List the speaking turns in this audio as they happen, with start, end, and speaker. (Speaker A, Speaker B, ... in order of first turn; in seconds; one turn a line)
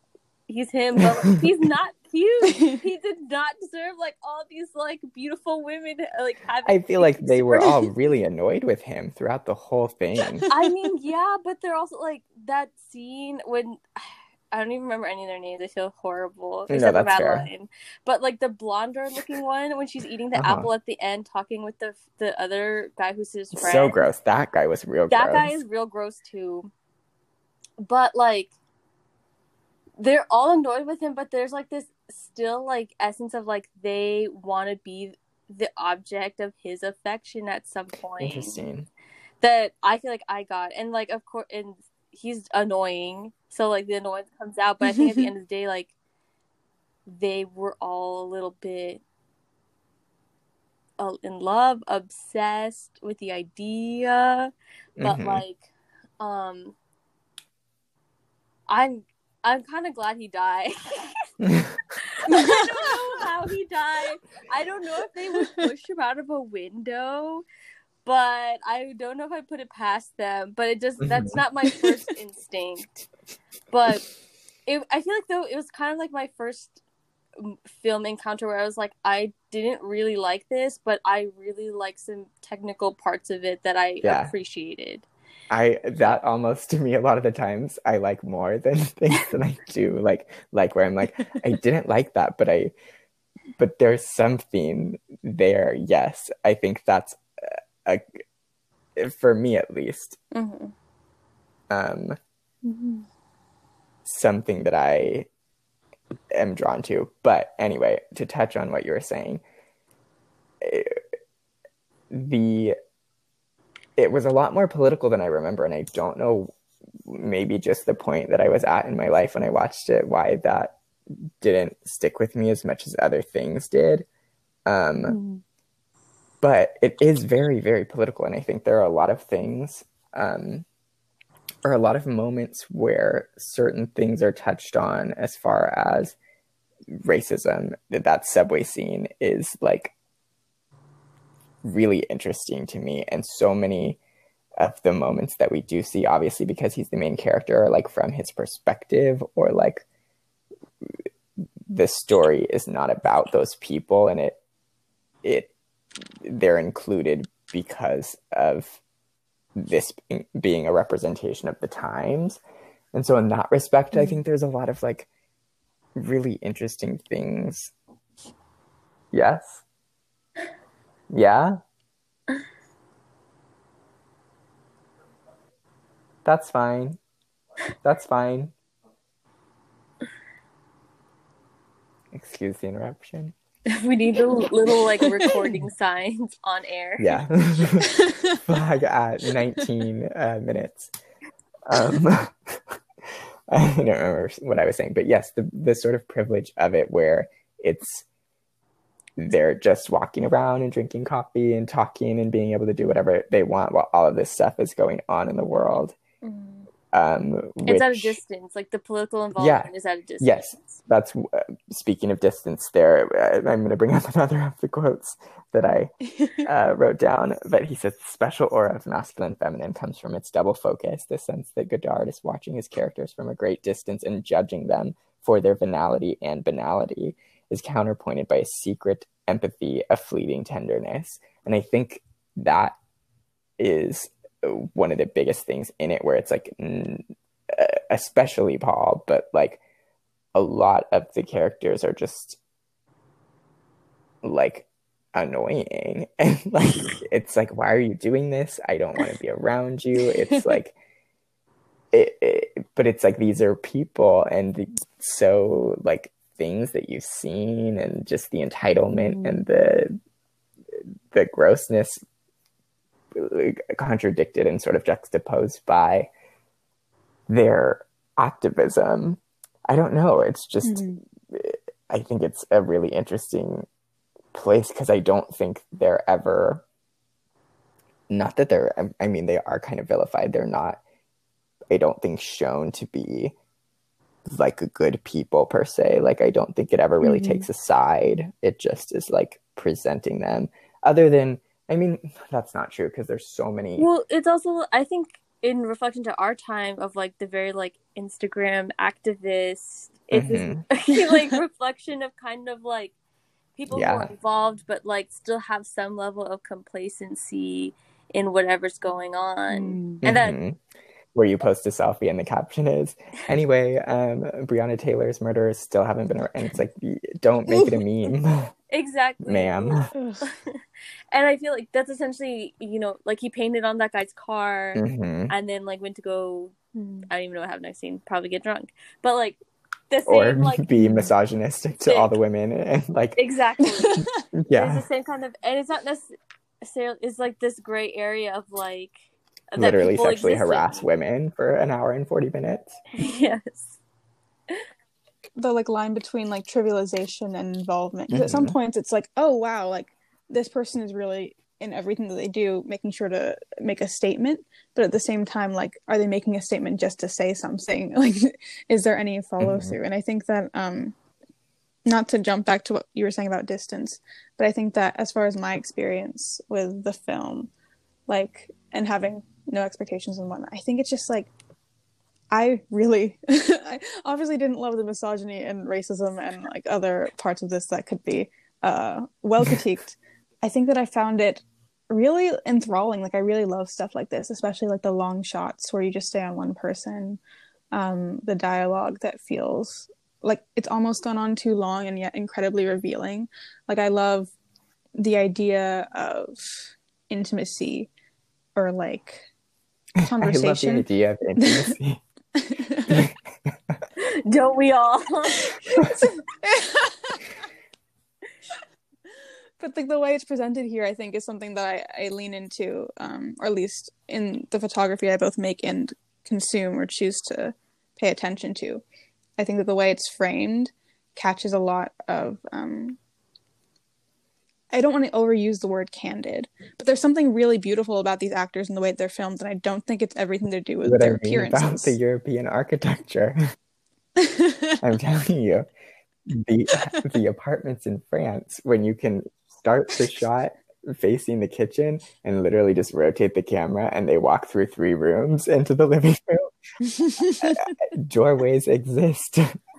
Speaker A: 0.5-7.9
Speaker B: 2.5-2.8
Speaker C: 6.6-10.5
Speaker A: 10.5-24.0
Speaker C: 16.7-17.5
Speaker C: 20.3-20.7
Speaker C: 23.5-25.6
Speaker A: 25.1-26.7
Speaker A: 27.8-28.5
Speaker A: 30.0-38.6
Speaker C: 38.2-38.9
Speaker A: 39.4-45.9
Speaker B: 44.8-45.3
Speaker A: 47.1-49.0
Speaker A: 51.0-55.6
Speaker C: 55.0-55.4
Speaker A: 56.2-56.8
Speaker A: 58.7-61.3
Speaker C: 61.4-61.8
Speaker A: 62.0-67.4
Speaker B: 62.3-62.6
Speaker A: 68.0-73.0
Speaker C: 71.0-71.3
Speaker A: 73.7-74.1
Speaker A: 74.7-76.8
Speaker A: 77.4-85.0
Speaker C: 84.0-84.3
Speaker C: 85.5-92.7
Speaker C: 93.6-98.2
Speaker C: 99.0-100.2
Speaker B: 100.3-100.7
Speaker C: 101.7-102.2
Speaker B: 102.6-103.0
Speaker C: 104.0-105.3
Speaker C: 106.3-109.4
Speaker C: 110.6-111.0
Speaker C: 112.1-112.7
Speaker C: 114.0-116.5
Speaker C: 117.0-120.8
Speaker C: 121.4-124.0
Speaker C: 124.7-125.2
Speaker B: 125.0-125.4
Speaker C: 126.4-130.7
Speaker C: 131.6-136.2
Speaker C: 136.9-139.9
Speaker C: 141.6-144.0
Speaker C: 144.6-149.8
Speaker C: 151.7-154.4
Speaker C: 155.2-155.5
Speaker C: 156.0-158.8
Speaker C: 159.5-162.4
Speaker C: 162.9-165.1
Speaker B: 163.9-164.2
Speaker C: 165.9-167.7
Speaker C: 169.1-169.6
Speaker C: 171.1-171.6
Speaker C: 176.2-177.0
Speaker C: 177.8-178.5
Speaker C: 182.1-183.3
Speaker A: 183.7-187.2
Speaker C: 187.0-190.9
Speaker B: 188.0-188.4
Speaker C: 191.7-192.6
Speaker C: 193.5-198.1
Speaker C: 199.2-205.9
Speaker A: 206.3-206.6
Speaker C: 206.9-208.2
Speaker A: 207.7-210.8
Speaker C: 209.4-209.7
Speaker C: 210.2-232.8
Speaker B: 216.0-216.5
Speaker C: 233.6-239.6
Speaker C: 240.3-242.4
Speaker C: 244.2-250.7
Speaker B: 250.1-250.6
Speaker C: 251.9-260.0
Speaker B: 259.0-259.4
Speaker C: 260.7-262.0
Speaker C: 263.1-266.1
Speaker C: 267.3-273.6
Speaker B: 270.6-271.0
Speaker C: 274.3-276.6
Speaker C: 278.1-280.8
Speaker C: 281.7-283.3
Speaker C: 284.2-293.9
Speaker B: 287.0-287.5
Speaker A: 293.8-302.9
Speaker C: 300.1-300.6
Speaker A: 303.6-310.4
Speaker C: 303.7-304.1
Speaker B: 309.5-310.0
Speaker C: 310.0-310.6
Speaker C: 311.1-318.5
Speaker B: 317.5-317.8
Speaker A: 318.7-326.6
Speaker C: 319.2-319.9
Speaker B: 319.9-320.3
Speaker C: 324.7-325.3
Speaker B: 326.7-327.1
Speaker A: 327.1-329.4
Speaker A: 329.9-330.7
Speaker C: 330.1-333.2
Speaker B: 330.8-331.1
Speaker A: 331.9-332.2
Speaker A: 333.2-339.0
Speaker B: 333.7-334.2
Speaker C: 334.0-334.9
Speaker A: 339.5-340.9
Speaker C: 339.6-342.8
Speaker A: 343.0-343.8
Speaker B: 345.4-360.9
Speaker C: 348.1-348.5
Speaker C: 359.4-359.8
Speaker B: 361.8-367.5
Speaker B: 368.1-371.3
Speaker B: 372.3-387.2
Speaker B: 387.7-394.3
Speaker B: 394.9-397.9
Speaker B: 398.6-399.2
Speaker C: 400.0-402.0
Speaker B: 400.1-400.9
Speaker B: 401.4-401.8
Speaker B: 402.3-403.1
Speaker C: 402.9-403.8
Speaker A: 404.0-405.5
Speaker B: 405.4-407.2
Speaker C: 405.7-406.0
Speaker B: 409.6-418.8
Speaker B: 419.4-423.0
Speaker B: 424.7-432.0
Speaker C: 430.8-433.4
Speaker B: 434.2-434.8
Speaker C: 434.8-435.7
Speaker C: 436.3-446.5
Speaker B: 446.8-447.7
Speaker C: 447.4-449.5